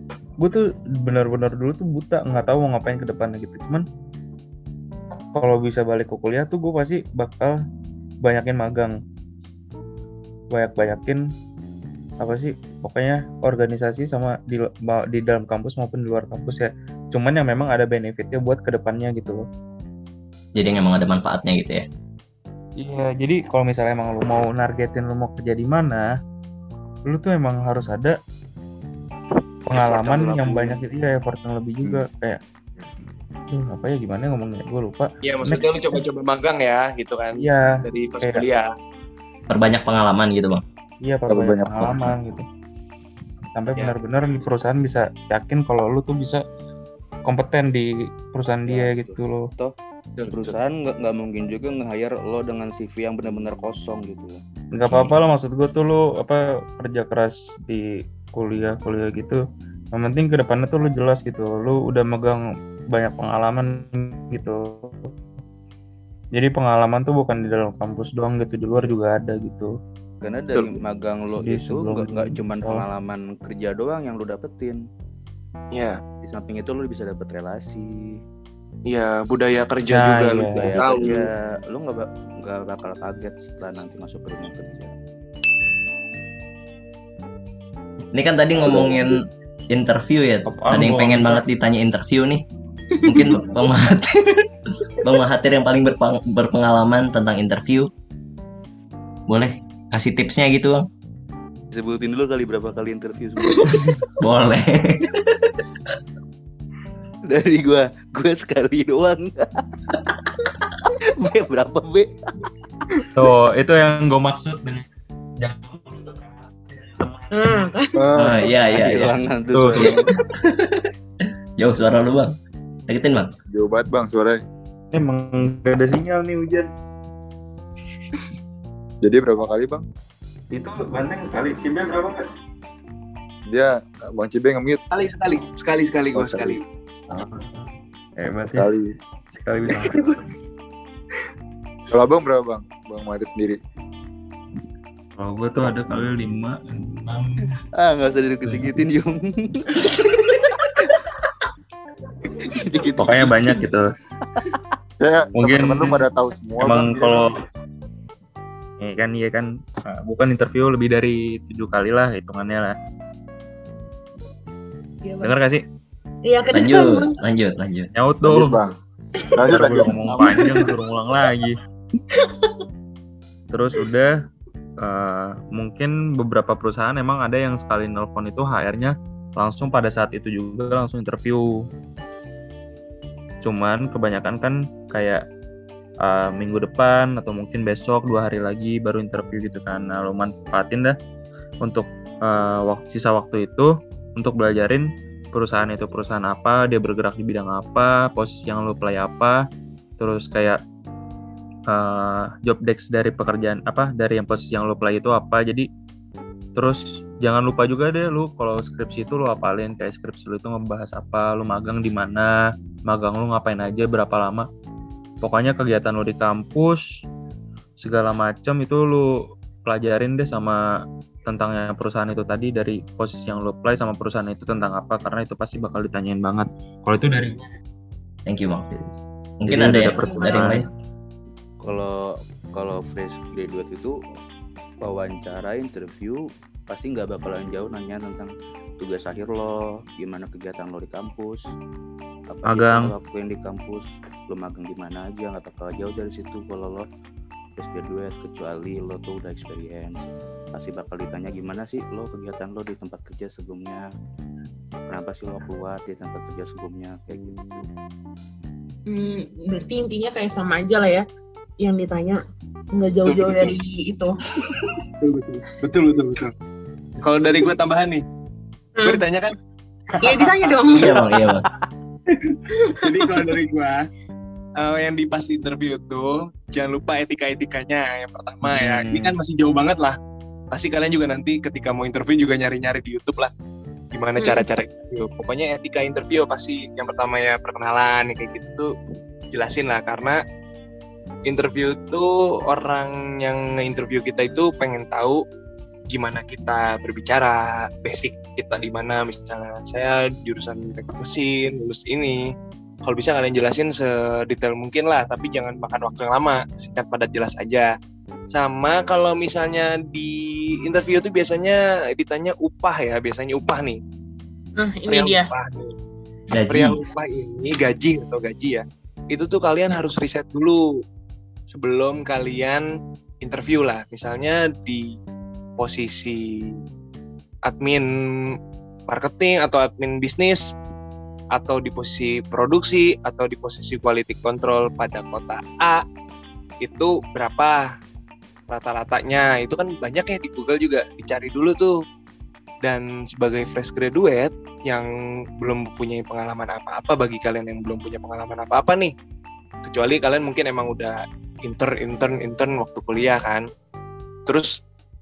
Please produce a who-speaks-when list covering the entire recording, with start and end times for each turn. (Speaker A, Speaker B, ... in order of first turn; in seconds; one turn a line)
Speaker A: 0.4-3.9
Speaker A: 5.3-7.5
Speaker A: 8.2-9.0
Speaker A: 10.5-11.3
Speaker A: 12.2-19.4
Speaker B: 20.6-21.9
Speaker A: 22.8-26.1
Speaker A: 27.1-28.2
Speaker A: 29.7-32.4
Speaker C: 29.7-30.8
Speaker A: 33.5-36.0
Speaker D: 35.2-38.7
Speaker A: 37.4-37.7
Speaker B: 39.5-40.6
Speaker A: 41.0-42.5
Speaker E: 41.3-42.2
Speaker A: 43.5-46.4
Speaker C: 43.7-44.0
Speaker A: 47.2-49.5
Speaker C: 48.7-49.8
Speaker D: 50.2-50.6
Speaker C: 50.3-54.4
Speaker A: 54.7-59.4
Speaker B: 54.9-55.1
Speaker A: 59.9-65.1
Speaker A: 66.3-69.7
Speaker C: 70.2-74.8
Speaker A: 71.4-72.8
Speaker D: 75.7-76.0
Speaker C: 76.2-77.9
Speaker D: 78.9-81.3
Speaker A: 79.9-80.8
Speaker C: 80.5-84.9
Speaker B: 88.1-89.2
Speaker E: 88.6-89.0
Speaker B: 89.7-92.4
Speaker A: 90.5-91.4
Speaker F: 93.0-93.3
Speaker B: 93.0-94.5
Speaker B: 95.0-97.9
Speaker B: 99.3-100.9
Speaker C: 101.7-103.8
Speaker B: 104.2-105.5
Speaker C: 107.3-109.5
Speaker C: 111.2-112.1
Speaker A: 113.2-114.8
Speaker A: 115.4-117.7
Speaker F: 117.3-118.0
Speaker E: 118.0-118.5
Speaker B: 118.2-119.2
Speaker C: 118.7-120.0
Speaker A: 119.5-119.9
Speaker B: 119.8-120.9
Speaker B: 121.6-122.3
Speaker B: 122.9-123.3
Speaker E: 123.5-124.4
Speaker A: 124.9-126.7
Speaker E: 129.0-129.8
Speaker A: 130.5-132.2
Speaker E: 133.5-134.8
Speaker D: 134.9-136.6
Speaker E: 136.2-136.6
Speaker A: 137.1-138.7
Speaker E: 138.5-138.9
Speaker A: 139.4-140.3
Speaker E: 141.9-143.6
Speaker A: 145.2-147.5
Speaker C: 147.8-150.1
Speaker A: 148.5-148.8
Speaker C: 152.5-153.4
Speaker A: 153.0-153.9
Speaker E: 155.0-157.3
Speaker A: 155.4-156.1
Speaker A: 156.6-157.3
Speaker A: 158.8-162.8
Speaker F: 165.0-165.3
Speaker A: 165.2-165.6
Speaker F: 166.3-167.2
Speaker B: 166.5-167.9
Speaker A: 167.9-168.6
Speaker E: 168.2-168.8
Speaker E: 169.3-170.6
Speaker A: 169.4-171.6
Speaker F: 170.2-170.7
Speaker F: 172.1-172.5
Speaker A: 173.5-174.2
Speaker A: 174.8-181.5
Speaker A: 183.4-185.2
Speaker A: 186.0-191.0
Speaker A: 191.6-199.4
Speaker A: 200.0-200.6
Speaker A: 201.7-205.7
Speaker A: 206.6-214.5
Speaker A: 215.2-217.0
Speaker A: 217.8-219.1
Speaker A: 219.7-220.6
Speaker A: 221.3-227.5
Speaker B: 228.3-228.7
Speaker B: 229.4-230.7
Speaker A: 229.5-230.7
Speaker C: 231.6-234.0
Speaker C: 234.8-241.4
Speaker C: 242.3-246.9
Speaker A: 242.5-242.9
Speaker C: 247.6-253.8
Speaker C: 254.9-257.7
Speaker F: 258.9-261.1
Speaker F: 261.6-262.2
Speaker F: 262.7-264.2
Speaker D: 263.1-263.6
Speaker D: 265.0-266.3
Speaker D: 267.0-268.0
Speaker F: 268.8-269.1
Speaker D: 268.9-269.3
Speaker D: 270.0-270.9
Speaker F: 270.0-271.2
Speaker B: 270.7-271.5
Speaker D: 272.2-273.9
Speaker F: 272.5-273.3
Speaker D: 274.6-280.0
Speaker A: 278.5-279.2
Speaker D: 280.5-283.3
Speaker D: 283.9-288.7
Speaker F: 284.2-284.5
Speaker D: 289.3-290.2
Speaker D: 291.3-295.2
Speaker D: 295.9-302.3
Speaker D: 302.8-307.7
Speaker D: 308.3-313.8
Speaker F: 314.6-315.3
Speaker D: 314.9-315.7
Speaker B: 316.3-316.8
Speaker D: 316.5-320.8
Speaker D: 321.5-322.7
Speaker D: 323.2-324.9
Speaker D: 325.6-326.5
Speaker D: 327.4-328.3
Speaker D: 328.9-330.4
Speaker D: 331.3-335.8
Speaker D: 336.6-337.7
Speaker D: 338.5-341.8
Speaker D: 342.6-344.9
Speaker D: 345.4-348.9
Speaker D: 349.6-353.5
Speaker D: 354.3-354.6